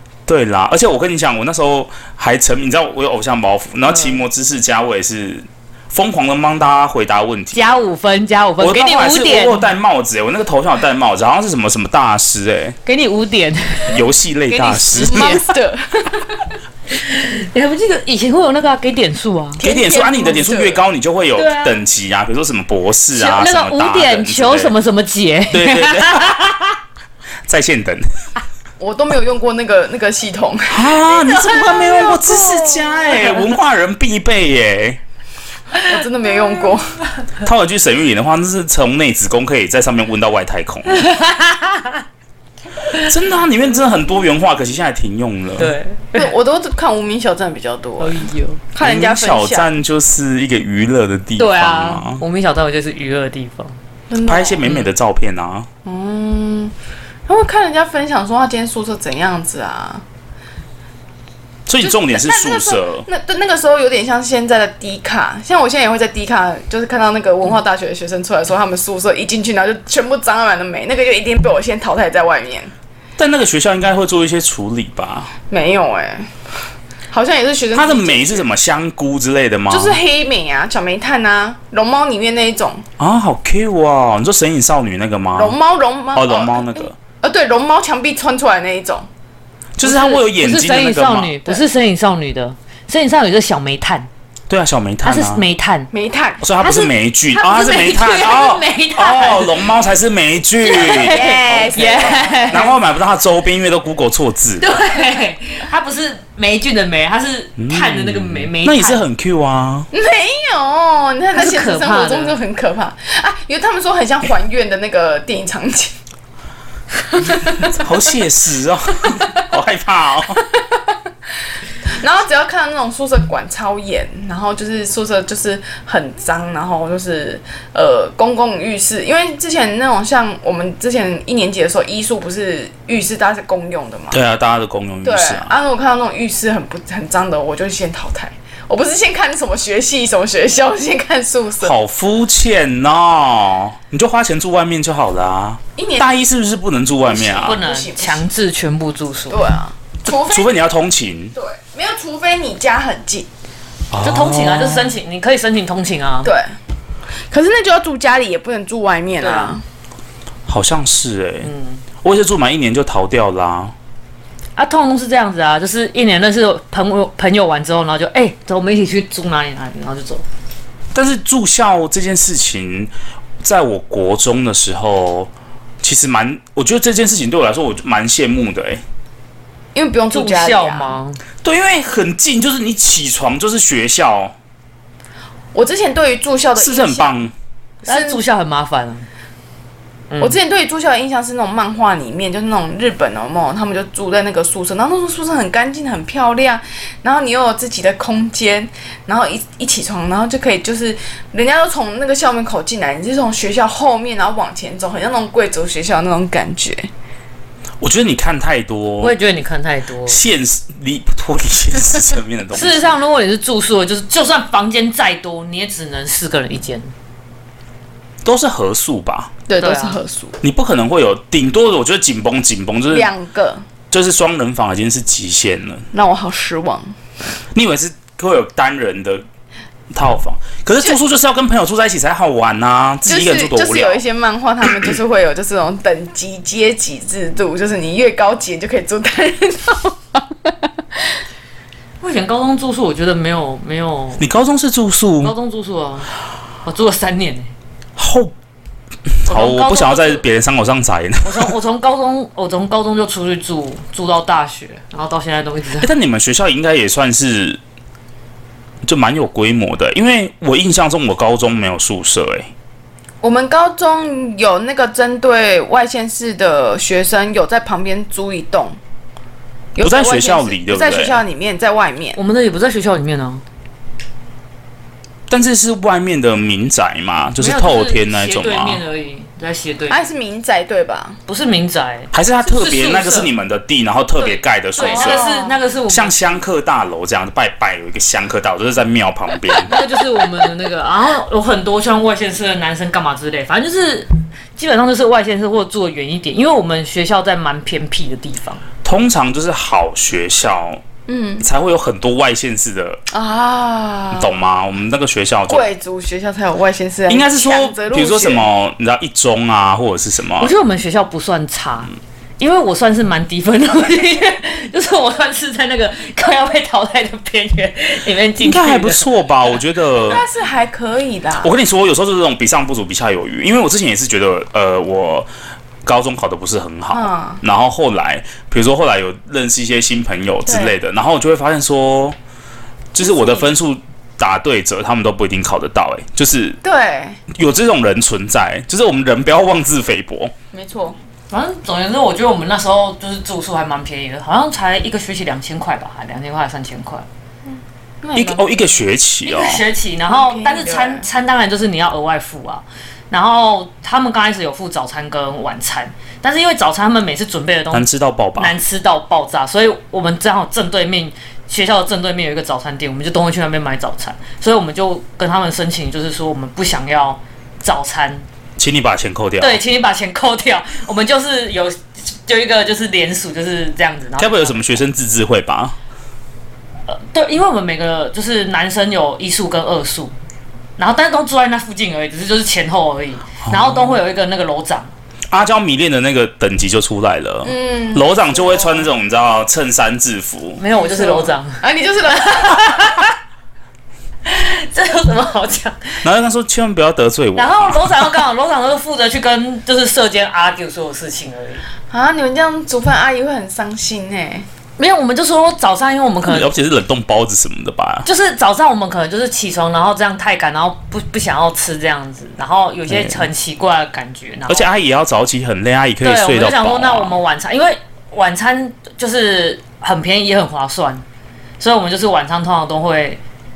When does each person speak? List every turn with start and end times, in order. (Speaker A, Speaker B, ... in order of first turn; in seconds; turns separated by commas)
Speaker A: 0.3-7.7, Speaker B: 3.9-4.2, Speaker B: 7.5-9.7, Speaker A: 8.6-12.8, Speaker B: 12.9-15.6, Speaker A: 13.9-15.4, Speaker C: 14.9-16.5, Speaker B: 16.9-19.6, Speaker C: 19.6-20.8, Speaker A: 19.6-24.8, Speaker B: 21.4-21.8, Speaker B: 23.1-26.8, Speaker A: 25.5-26.4, Speaker A: 27.5-28.1, Speaker C: 28.8-31.0, Speaker A: 30.7-35.0, Speaker B: 31.2-33.5, Speaker B: 35.8-36.7, Speaker C: 35.9-37.0, Speaker A: 37.4-41.0, Speaker B: 40.9-42.0, Speaker A: 43.0-45.8, Speaker B: 45.6-46.3, Speaker C: 46.1-49.7, Speaker B: 48.0-48.6, Speaker A: 48.8-52.2, Speaker B: 51.4-53.8, Speaker C: 54.1-54.6, Speaker A: 54.3-55.7, Speaker C: 55.9-56.7, Speaker C: 57.3-60.0, Speaker A: 61.7-63.1, Speaker C: 61.8-72.7, Speaker A: 73.2-75.3, Speaker C: 75.5-76.3, Speaker C: 77.1-78.5, Speaker A: 77.7-80.0, Speaker C: 79.7-82.9, Speaker A: 83.0-85.6, Speaker C: 85.4-89.1, Speaker A: 86.2-87.0, Speaker A: 89.8-91.4, Speaker C: 89.8-90.1, Speaker B: 90.1-94.1, Speaker A: 94.5-95.5, Speaker B: 95.0-95.9, Speaker C: 95.9-96.4, Speaker A: 96.4-101.2, Speaker B: 96.6-99.7, Speaker B: 100.6-102.7, Speaker C: 100.9-102.7, Speaker A: 102.5-104.7, Speaker B: 104.6-109.0, Speaker A: 107.6-109.9, Speaker C: 109.9-115.9, Speaker B: 111.3-112.4, Speaker C: 117.1-117.8, Speaker A: 117.6-120.4, Speaker C: 121.9-134.2, Speaker A: 134.1-135.5, Speaker C: 135.0-141.8, Speaker A: 141.6-147.6, Speaker C: 145.8-146.2, Speaker C: 147.1-148.3, Speaker B: 147.3-149.5, Speaker C: 149.3-150.5, Speaker A: 150.1-151.3, Speaker C: 151.4-153.3, Speaker A: 153.9-155.0, Speaker B: 154.0-156.3, Speaker C: 156.2-156.6, Speaker C: 157.3-159.6, Speaker B: 159.2-159.6, Speaker A: 160.5-161.5, Speaker B: 161.4-161.8, Speaker A: 162.0-163.7, Speaker B: 164.6-170.2, Speaker A: 170.9-172.9, Speaker A: 173.4-175.3, Speaker A: 175.8-178.8, Speaker C: 179.7-181.0, Speaker B: 180.1-181.2, Speaker A: 181.4-184.3, Speaker C: 185.5-187.2, Speaker A: 186.6-187.3, Speaker C: 187.8-188.2, Speaker B: 187.8-189.1, Speaker B: 190.1-190.4, Speaker C: 190.2-206.9, Speaker A: 207.8-209.2, Speaker B: 209.0-210.2, Speaker A: 210.1-212.9, Speaker B: 212.5-216.9, Speaker A: 218.2-219.3, Speaker C: 219.5-220.4, Speaker B: 219.6-220.0, Speaker A: 220.4-223.1, Speaker C: 222.9-223.6, Speaker A: 223.9-225.8, Speaker C: 225.9-227.0, Speaker A: 227.5-229.2, Speaker A: 229.9-234.0, Speaker C: 233.1-240.7, Speaker B: 242.0-244.3, Speaker A: 244.2-245.3, Speaker B: 245.2-246.1, Speaker B: 246.7-247.5, Speaker A: 248.0-248.3, Speaker A: 249.2-251.5, Speaker B: 249.3-250.2, Speaker B: 251.2-255.9, Speaker A: 255.8-257.6, Speaker A: 258.9-262.5, Speaker C: 263.2-268.8, Speaker C: 269.8-272.2, Speaker A: 269.8-271.2, Speaker B: 272.2-273.4, Speaker A: 275.3-278.8, Speaker B: 277.4-280.1, Speaker C: 279.9-281.2, Speaker B: 281.3-283.3, Speaker A: 282.1-285.2, Speaker B: 284.2-286.3, Speaker C: 284.8-285.6, Speaker A: 285.9-289.7, Speaker B: 289.6-298.6, Speaker A: 298.8-300.8, Speaker C: 301.1-301.5, Speaker A: 301.4-303.0, Speaker C: 303.1-304.3, Speaker A: 304.1-305.7, Speaker C: 305.5-308.5, Speaker A: 307.1-310.5, Speaker B: 310.4-319.1, Speaker A: 318.4-320.2, Speaker C: 320.0-321.5, Speaker A: 321.4-325.3, Speaker A: 325.9-332.2, Speaker C: 326.9-327.4, Speaker C: 330.5-330.7, Speaker A: 332.9-336.6, Speaker C: 333.0-333.5, Speaker C: 336.6-337.2, Speaker A: 337.3-340.3, Speaker C: 340.5-341.0, Speaker B: 341.3-347.1, Speaker C: 348.0-348.7, Speaker A: 348.2-349.6, Speaker B: 349.3-368.2, Speaker C: 350.1-351.1, Speaker A: 357.7-358.6, Speaker A: 368.6-369.6, Speaker B: 369.4-374.8, Speaker A: 374.2-375.8, Speaker B: 376.9-380.1, Speaker B: 380.8-384.9, Speaker A: 383.5-384.0, Speaker A: 385.3-390.6, Speaker C: 387.4-388.9, Speaker B: 390.6-393.1, Speaker C: 390.8-392.7, Speaker B: 394.2-396.1, Speaker A: 396.0-397.9, Speaker B: 397.4-401.6, Speaker C: 401.9-404.5, Speaker B: 404.8-406.5, Speaker A: 406.2-408.1, Speaker B: 408.1-414.7, Speaker A: 412.9-413.3, Speaker A: 414.5-417.2, Speaker B: 416.0-421.0, Speaker B: 421.6-423.2